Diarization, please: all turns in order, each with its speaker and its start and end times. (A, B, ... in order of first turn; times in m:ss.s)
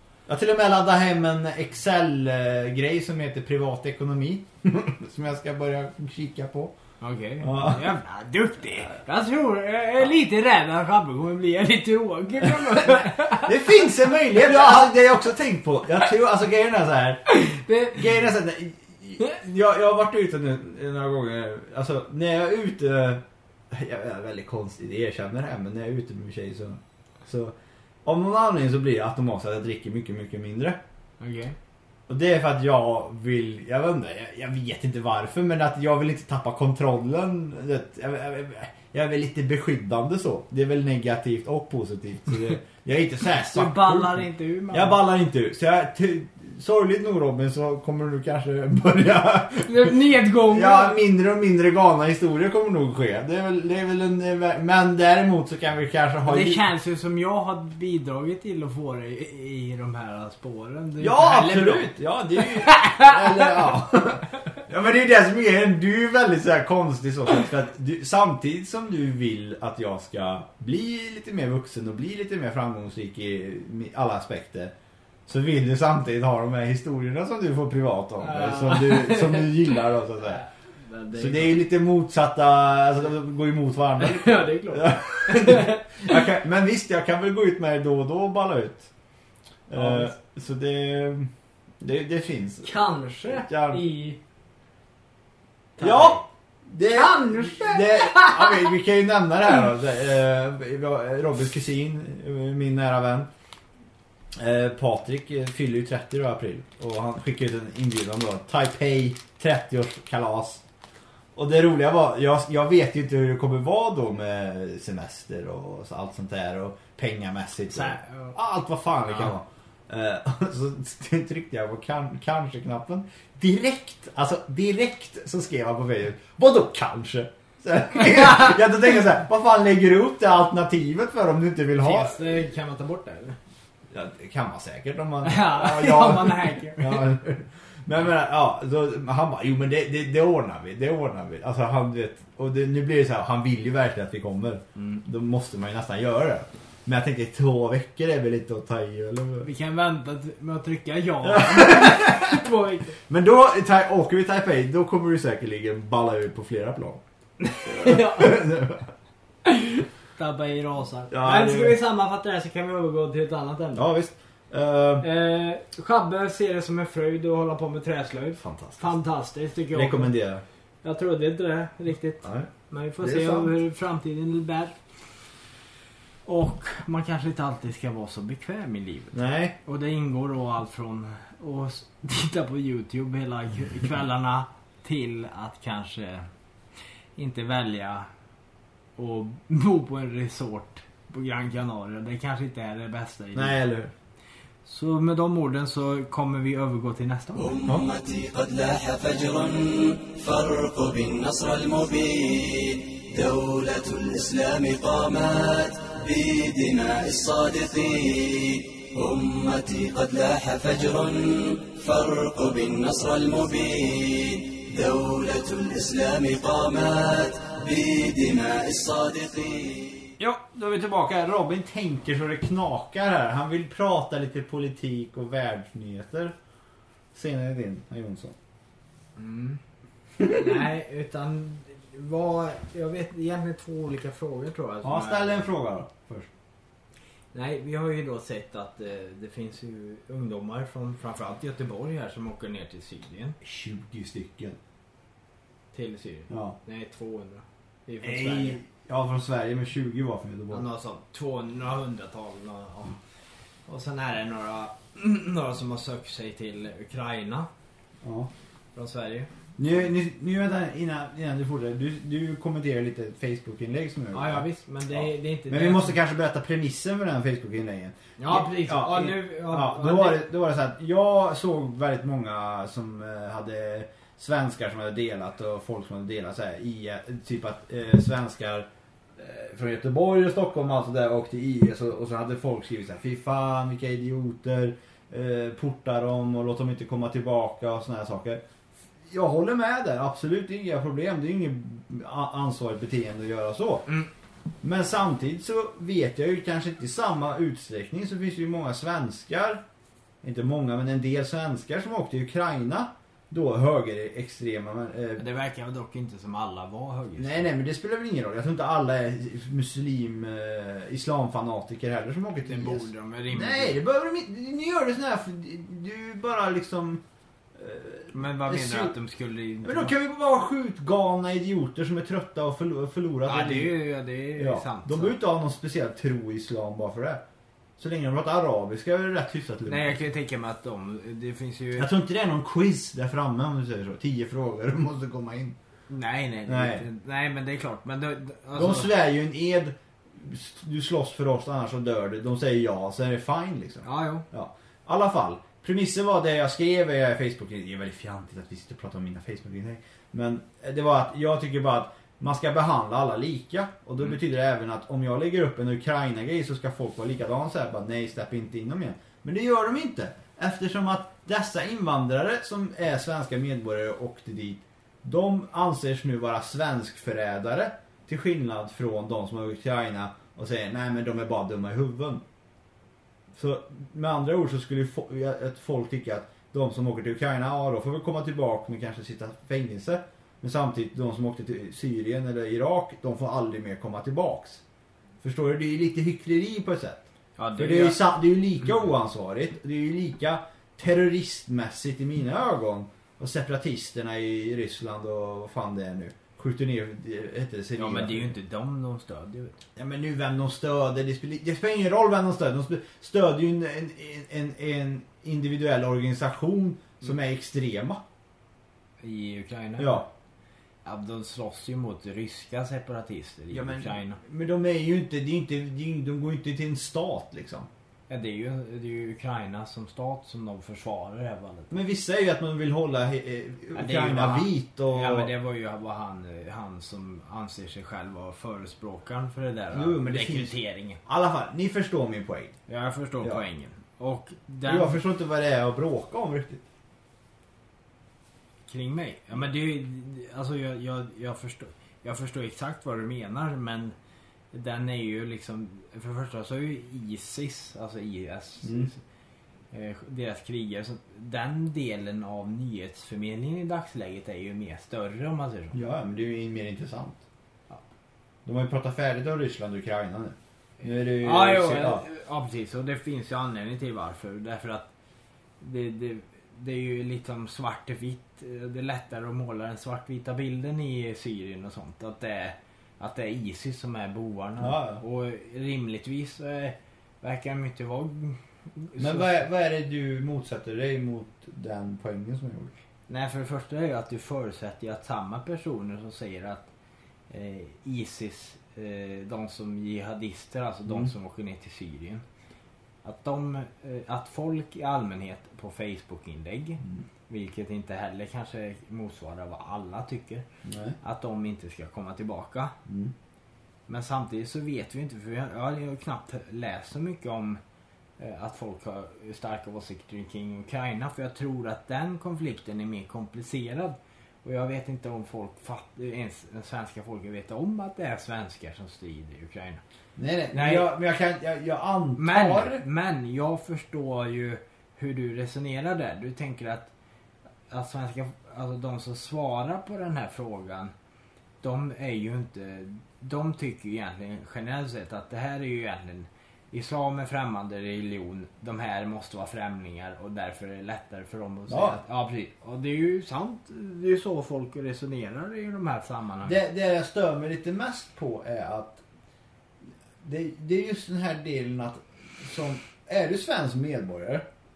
0:00.3-0:06.7 A
0:07.0-0:14.9 B
0:07.4-0:07.9 A
0:12.6-0:17.3 A
0:17.3-0:18.0 B
0:17.9-0:30.8 A
0:31.2-0:31.6 B
0:32.1-0:56.6 A
0:43.5-0:45.0 B
0:49.6-0:51.0 B
0:56.2-1:01.9 B
1:01.0-1:14.7 A
1:02.7-1:03.1 B
1:15.3-1:20.4 A
1:18.2-1:19.7 B
1:20.4-1:21.6 B
1:21.1-1:28.9 A
1:24.0-1:26.0 B
1:29.7-1:32.7 A
1:29.8-1:30.1 B
1:32.6-1:34.2 B
1:33.3-1:33.8 A
1:35.8-1:36.2 B
1:35.8-1:43.3 A
1:36.9-1:38.7 B
1:44.4-1:50.6 A
1:51.4-2:12.2 A
1:57.7-1:58.4 B
2:11.8-2:13.4 B
2:13.9-2:29.5 A
2:15.2-2:17.1 B
2:29.4-2:33.0 B
2:31.2-2:32.4 A
2:33.1-2:37.0 A
2:37.4-2:38.4 B
2:37.6-2:38.9 A
2:39.4-2:43.8 B
2:41.1-2:41.8 A
2:43.8-2:45.1 A
2:45.0-2:50.1 B
2:48.4-2:48.9 A
2:49.7-2:50.4 A
2:50.8-2:54.8 B
2:52.2-2:52.5 A
2:53.0-2:53.5 A
2:56.3-3:06.3 B
2:59.1-2:59.6 A
3:07.2-3:08.1 B
3:09.0-3:13.6 B
3:13.3-3:13.9 A
3:14.7-3:17.5 B
3:17.4-3:40.1 C
3:40.2-3:46.4 A
3:47.1-3:48.4 A
3:49.2-3:49.6 B
3:50.2-3:55.5 B
3:54.8-3:56.3 A
3:57.3-4:03.4 B
4:03.4-4:04.6 A
4:05.7-4:08.6 B
4:06.3-4:06.6 A
4:08.0-4:10.6 A
4:10.5-4:13.0 B
4:13.7-4:17.5 B
4:18.0-4:18.3 A
4:18.8-4:19.3 B
4:19.6-4:48.4 A
4:24.1-4:26.0 B
4:28.2-4:30.2 B
4:49.1-4:53.9 A
4:54.6-4:59.6 A
5:00.2-5:05.2 A
5:05.2-5:07.5 B
5:07.2-5:17.0 A
5:12.5-5:13.8 B
5:17.6-5:19.0 A
5:18.1-5:20.0 B
5:19.6-5:23.8 A
5:23.3-5:25.2 B
5:24.4-5:27.2 A
5:27.8-5:30.0 A
5:29.7-5:31.9 B
5:31.8-5:35.6 A
5:35.9-5:38.9 B
5:36.5-5:36.8 A
5:38.6-6:12.2 A
5:43.8-5:44.3 B
6:13.3-6:24.6 A
6:25.2-6:38.3 A
6:27.4-6:28.0 B
6:37.8-6:39.6 B
6:39.8-6:48.0 A
6:49.0-6:50.0 B
6:49.8-6:50.1 A
6:50.8-6:54.2 B
6:53.5-6:57.7 A
6:58.1-7:01.7 B
7:01.7-7:05.3 A
7:03.7-7:11.0 B
7:09.7-7:12.6 A
7:12.7-7:15.0 B
7:14.6-7:16.6 A
7:18.7-7:24.0 B
7:24.5-7:29.0 B
7:28.6-7:28.9 A
7:29.7-7:35.8 B
7:35.7-7:37.2 A
7:38.4-7:42.0 A
7:41.2-7:44.9 B
7:45.6-7:59.4 B
7:54.6-7:55.0 A
7:59.0-8:02.8 A
8:03.1-8:06.7 B
8:07.3-8:12.2 B
8:13.0-8:20.5 B
8:20.6-8:21.0 A
8:21.0-8:22.8 B
8:22.9-8:23.1 A
8:23.9-8:27.6 B
8:28.2-8:39.8 B
8:40.2-8:42.8 A
8:40.5-8:40.9 B
8:42.2-8:46.9 B
8:47.7-8:50.9 B
8:51.6-9:06.6 B
9:01.7-9:02.0 A
9:06.4-9:09.0 A
9:10.2-9:14.5 A